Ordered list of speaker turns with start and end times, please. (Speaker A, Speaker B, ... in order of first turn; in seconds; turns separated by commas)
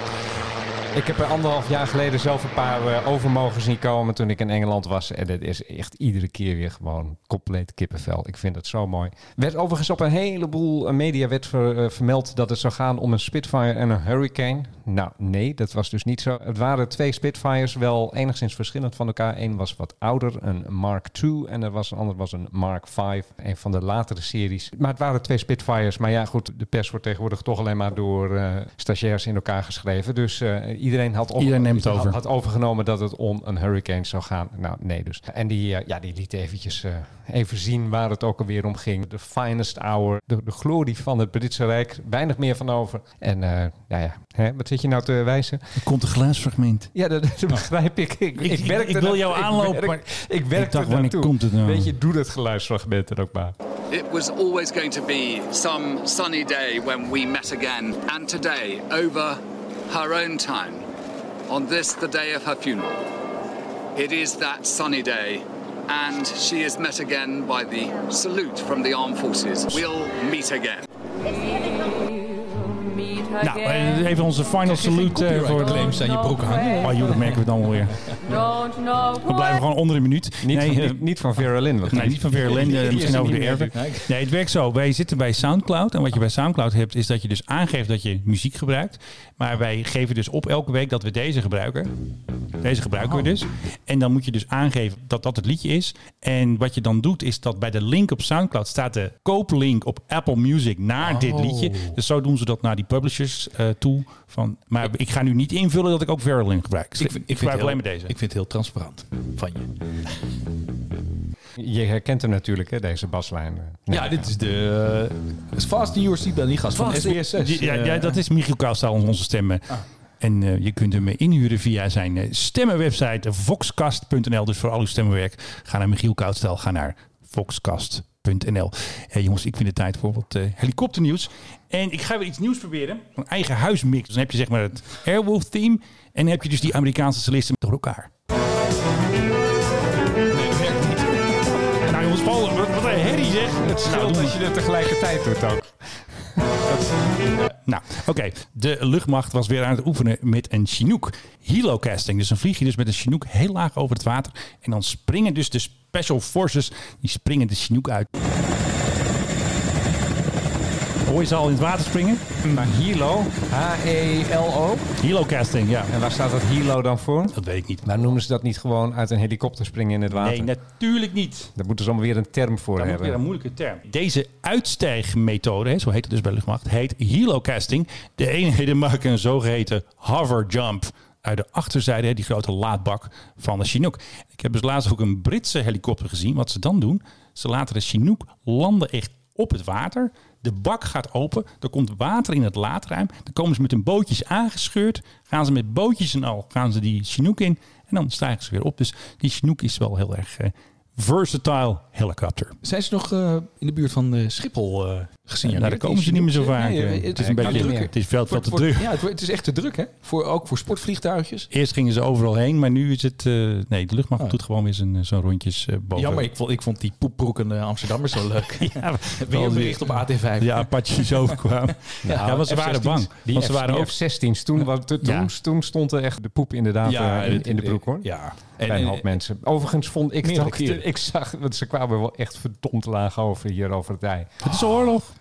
Speaker A: 0.9-45.6, Speaker B: 31.4-32.2, Speaker B: 45.8-46.9, Speaker A: 46.9-53.5, Speaker B: 48.4-50.0, Speaker B: 50.5-51.9, Speaker C: 53.9-60.9, Speaker C: 61.5-63.0, Speaker C: 63.9-70.8, Speaker B: 73.4-76.0, Speaker D: 74.6-77.5, Speaker B: 76.8-78.0, Speaker D: 78.0-78.4, Speaker B: 79.1-81.0, Speaker A: 80.4-83.7, Speaker B: 81.9-91.9, Speaker D: 82.4-84.1, Speaker B: 92.6-108.1, Speaker D: 101.0-102.0, Speaker D: 107.0-109.7, Speaker A: 111.6-114.3, Speaker D: 113.9-118.2, Speaker B: 116.8-119.6, Speaker B: 120.2-138.1, Speaker D: 140.3-141.4, Speaker B: 141.8-144.4, Speaker A: 143.6-145.7, Speaker A: 146.4-146.7, Speaker B: 147.6-158.1, Speaker B: 161.1-162.2, Speaker D: 162.4-162.7, Speaker A: 162.5-164.9, Speaker B: 165.0-165.9, Speaker A: 165.9-170.5, Speaker B: 167.3-167.9, Speaker B: 170.1-171.5, Speaker A: 171.5-173.2, Speaker B: 172.8-202.6, Speaker D: 202.6-211.5, Speaker B: 205.4-208.9, Speaker A: 207.2-207.9, Speaker B: 211.5-216.3, Speaker D: 215.9-221.4, Speaker B: 218.6-223.9, Speaker D: 222.0-223.1, Speaker A: 222.0-222.4, Speaker A: 223.2-228.1, Speaker B: 225.0-225.3, Speaker D: 226.8-229.1, Speaker A: 228.7-234.3, Speaker D: 230.2-230.8, Speaker B: 234.4-235.1